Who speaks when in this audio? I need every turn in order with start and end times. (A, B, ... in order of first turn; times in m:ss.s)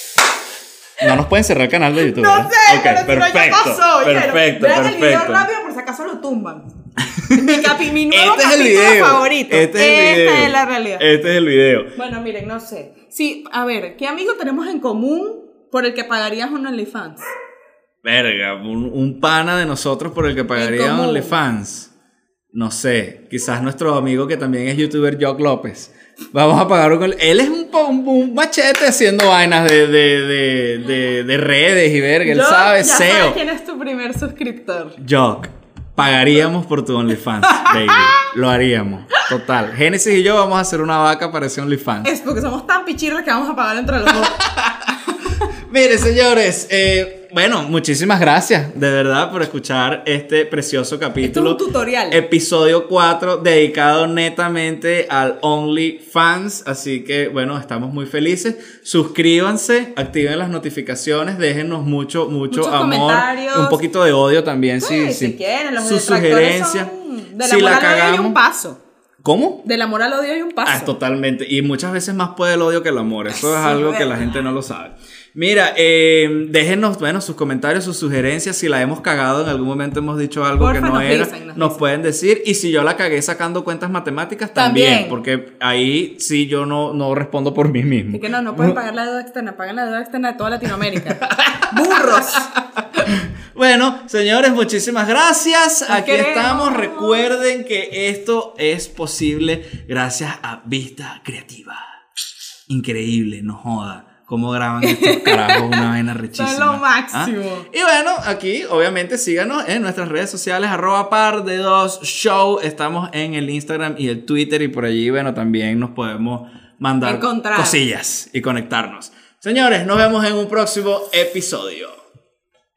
0:01.0-0:05.5 A
0:02.0-0:06.6 B
0:07.0-0:11.9 A
0:07.3-0:11.0 B
0:11.9-0:17.2 B
0:18.0-0:21.9 A
0:20.6-0:21.4 B
0:22.5-0:33.4 A
0:32.2-0:35.0 B
0:35.0-0:42.1 A
0:37.5-0:38.2 B
0:42.0-0:44.4 B
0:44.2-1:06.9 A
0:51.2-0:52.2 B
1:02.5-1:03.8 B
1:04.8-1:08.8 B
1:07.4-1:08.4 A
1:09.2-1:09.6 A
1:09.6-1:10.9 B
1:10.6-1:28.8 A
1:13.3-1:14.5 B
1:20.6-1:21.8 B
1:24.5-1:25.2 B
1:28.1-1:32.5 B
1:30.9-2:02.0 A
1:35.9-1:37.3 B
1:44.8-1:47.7 B
1:57.0-1:57.8 B